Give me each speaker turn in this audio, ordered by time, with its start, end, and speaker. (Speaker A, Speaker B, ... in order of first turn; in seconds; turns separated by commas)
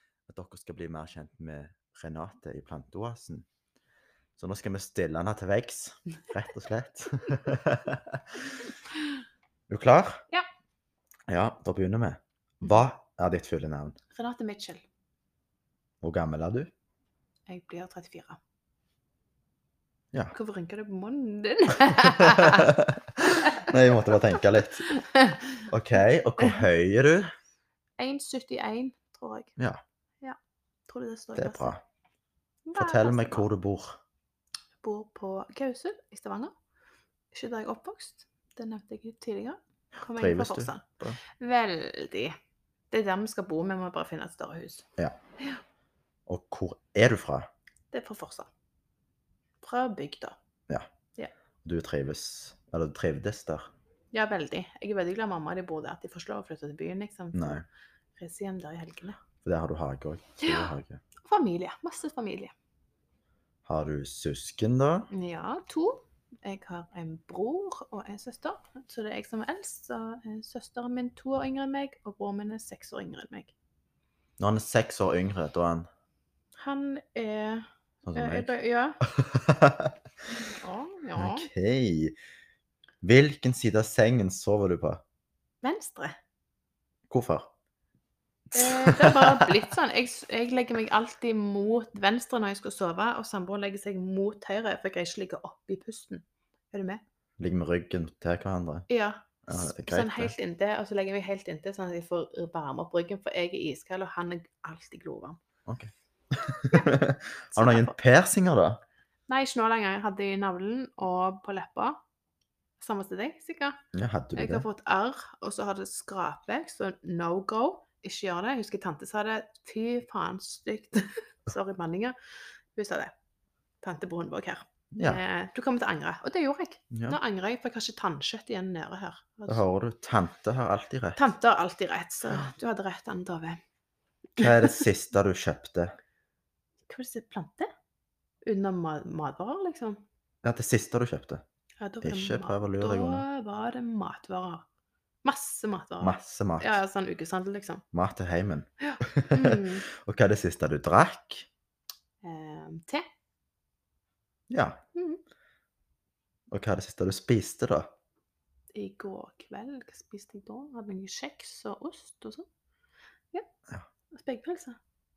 Speaker A: 0.3-3.5, Speaker A: 4.4-8.4, Speaker A: 9.7-10.2, Speaker A: 11.3-14.0, Speaker B: 14.1-14.8, Speaker A: 16.0-16.7, Speaker B: 17.5-18.4, Speaker B: 20.3-25.5, Speaker A: 22.0-24.9, Speaker A: 25.7-27.3, Speaker B: 28.0-29.5, Speaker B: 30.9-31.7, Speaker A: 31.4-31.8, Speaker B: 32.6-33.5, Speaker A: 32.8-34.0, Speaker B: 34.8-36.5, Speaker B: 37.3-42.3, Speaker A: 40.0-41.2, Speaker B: 42.9-44.8, Speaker A: 46.3-47.5, Speaker B: 47.9-48.5, Speaker B: 49.6-50.4, Speaker A: 51.6-53.7, Speaker B: 54.1-57.6, Speaker A: 57.3-57.6, Speaker B: 58.2-59.2, Speaker A: 59.4-61.0, Speaker B: 60.4-62.5, Speaker A: 63.6-65.1, Speaker B: 65.1-73.5, Speaker A: 74.4-75.9, Speaker B: 76.6-79.0, Speaker A: 78.0-78.5, Speaker A: 79.0-79.9, Speaker B: 80.6-81.5, Speaker A: 81.2-82.1, Speaker A: 83.0-85.0, Speaker B: 85.6-86.2, Speaker A: 87.1-87.5, Speaker A: 88.5-89.5, Speaker B: 88.5-97.0, Speaker A: 97.4-98.9, Speaker B: 98.9-105.4, Speaker A: 99.5-100.3, Speaker A: 105.7-108.8, Speaker B: 107.5-107.9, Speaker B: 109.3-112.0, Speaker B: 112.8-113.8, Speaker A: 113.9-114.7, Speaker B: 114.3-122.1, Speaker B: 122.7-123.1, Speaker B: 123.8-129.6, Speaker A: 124.9-125.2, Speaker A: 126.9-127.2, Speaker A: 129.5-131.2, Speaker B: 131.2-133.6, Speaker A: 134.4-135.9, Speaker B: 134.4-134.8, Speaker B: 136.9-137.7, Speaker B: 138.4-140.0, Speaker A: 140.4-141.4, Speaker B: 141.8-144.6, Speaker A: 142.0-143.2, Speaker B: 145.2-147.8, Speaker A: 146.0-146.8, Speaker A: 147.9-151.5, Speaker B: 148.8-149.8, Speaker B: 152.2-153.0, Speaker A: 154.5-154.8, Speaker B: 154.9-155.2, Speaker A: 156.5-157.9, Speaker B: 158.7-162.4, Speaker B: 164.1-164.8